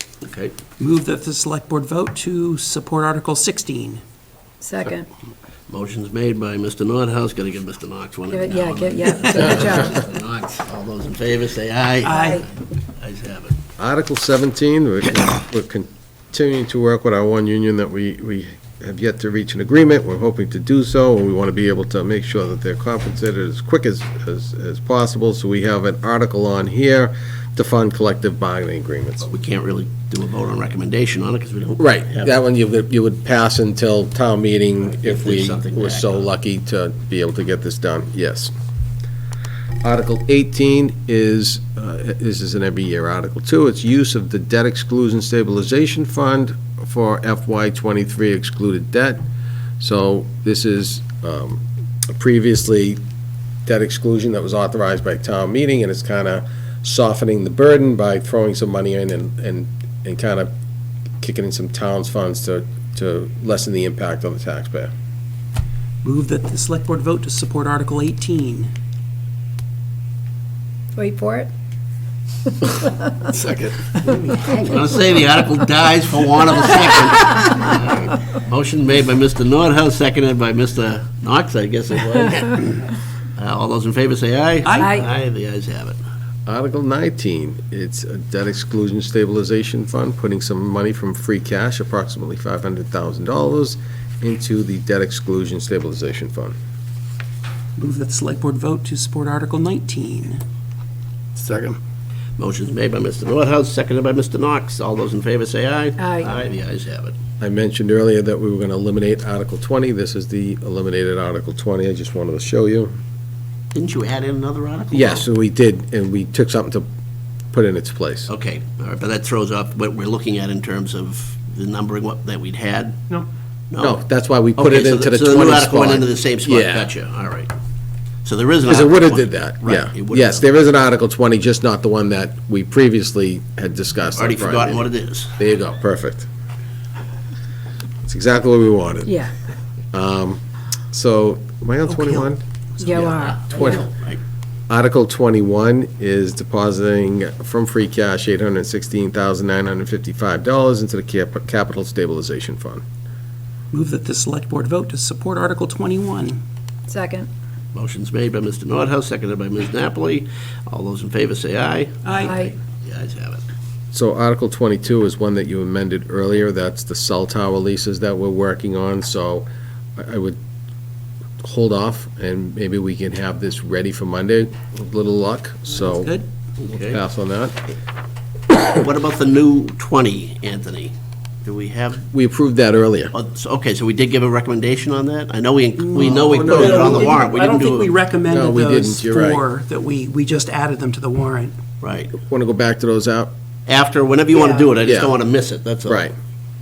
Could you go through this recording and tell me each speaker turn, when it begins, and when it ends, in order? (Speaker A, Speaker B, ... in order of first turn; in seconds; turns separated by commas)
Speaker A: 0.2-0.5, Speaker B: 0.8-4.0, Speaker C: 4.6-5.1, Speaker A: 5.7-13.6, Speaker C: 8.3-10.0, Speaker B: 12.0-12.4, Speaker C: 12.0-12.4, Speaker D: 13.8-29.3, Speaker A: 29.2-32.3, Speaker D: 31.8-38.5, Speaker A: 34.8-36.3, Speaker D: 39.8-49.2, Speaker D: 49.8-53.0, Speaker D: 53.6-60.5, Speaker D: 61.2-64.9, Speaker B: 66.0-68.7, Speaker C: 70.9-71.5, Speaker C: 72.8-73.1, Speaker B: 73.4-74.5, Speaker A: 74.5-86.0, Speaker B: 84.6-84.9, Speaker C: 84.8-85.1, Speaker D: 86.5-96.5, Speaker B: 97.8-100.4, Speaker B: 101.3-101.8, Speaker A: 102.4-107.2, Speaker C: 106.0-106.3, Speaker D: 107.4-112.9, Speaker A: 113.7-115.2, Speaker D: 114.9-116.8, Speaker D: 117.5-118.3, Speaker A: 118.3-123.1, Speaker A: 123.7-124.0, Speaker D: 123.8-126.9, Speaker A: 124.5-127.5, Speaker A: 128.2-130.5, Speaker D: 128.7-134.8, Speaker A: 134.1-135.4, Speaker D: 135.4-136.3, Speaker D: 138.0-139.1, Speaker C: 139.0-139.3, Speaker D: 139.9-140.4, Speaker D: 140.9-142.4, Speaker B: 141.9-142.3, Speaker A: 142.8-144.2, Speaker C: 142.8-143.7, Speaker D: 143.5-143.8, Speaker D: 144.7-152.8, Speaker B: 153.7-156.4, Speaker C: 156.9-157.3, Speaker A: 157.7-163.5, Speaker B: 162.0-162.4, Speaker C: 162.2-162.5, Speaker D: 163.9-169.4, Speaker D: 170.0-170.4, Speaker D: 171.4-176.1, Speaker B: 175.8-176.3, Speaker A: 176.6-177.0, Speaker D: 176.8-177.6, Speaker A: 178.5-180.9, Speaker A: 181.4-182.1, Speaker D: 182.1-183.1, Speaker A: 183.1-188.0, Speaker B: 185.8-191.5, Speaker D: 186.6-187.0, Speaker D: 188.3-189.4, Speaker A: 191.8-192.1, Speaker D: 192.1-193.3, Speaker A: 193.7-196.1, Speaker D: 194.8-195.1, Speaker D: 195.8-196.1